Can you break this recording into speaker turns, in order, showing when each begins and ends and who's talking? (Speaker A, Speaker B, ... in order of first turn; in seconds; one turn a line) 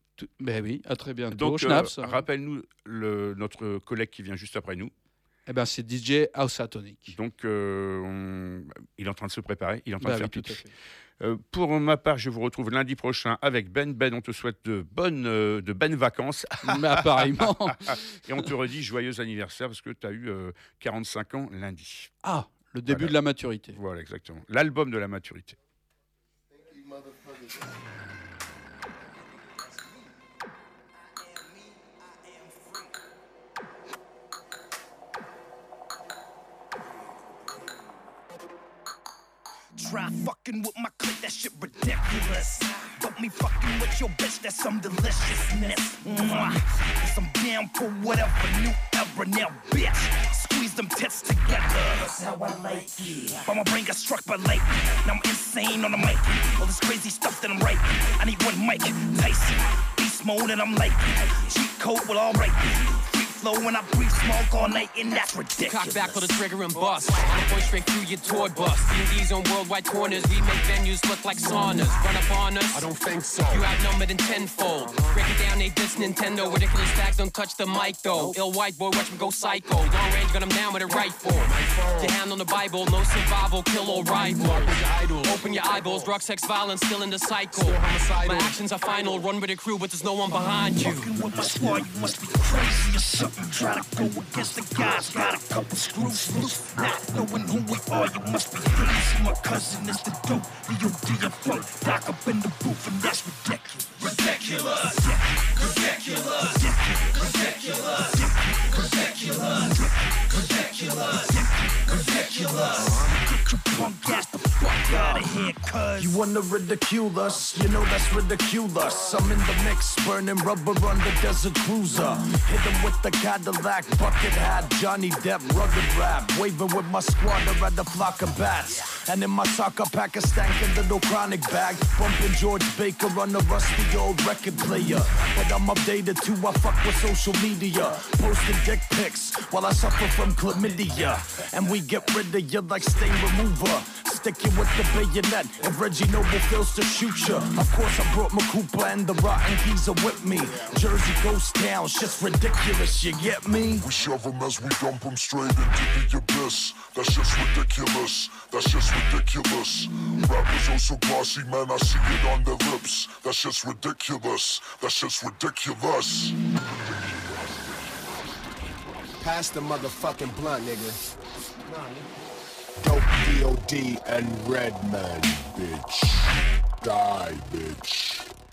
Speaker A: 0.2-2.2
Speaker B: 1.3-4.9
Speaker A: 5.5-7.1
Speaker B: 7.1-10.6
Speaker A: 10.0-10.7
Speaker B: 11.2-22.1
Speaker A: 16.6-18.1
Speaker A: 22.2-23.8
Speaker B: 22.9-23.1
Speaker B: 23.7-25.6
Speaker C: 39.8-66.3
Speaker D: 65.7-72.9
Speaker E: 72.7-73.7
Speaker D: 73.4-91.1
Speaker E: 80.9-82.2
Speaker E: 87.7-88.5
Speaker C: 90.8-116.2
Speaker F: 116.0-153.9
Speaker G: 153.7-166.3
Speaker E: 169.2-171.0
Speaker E: 171.6-172.1
Speaker E: 172.8-178.2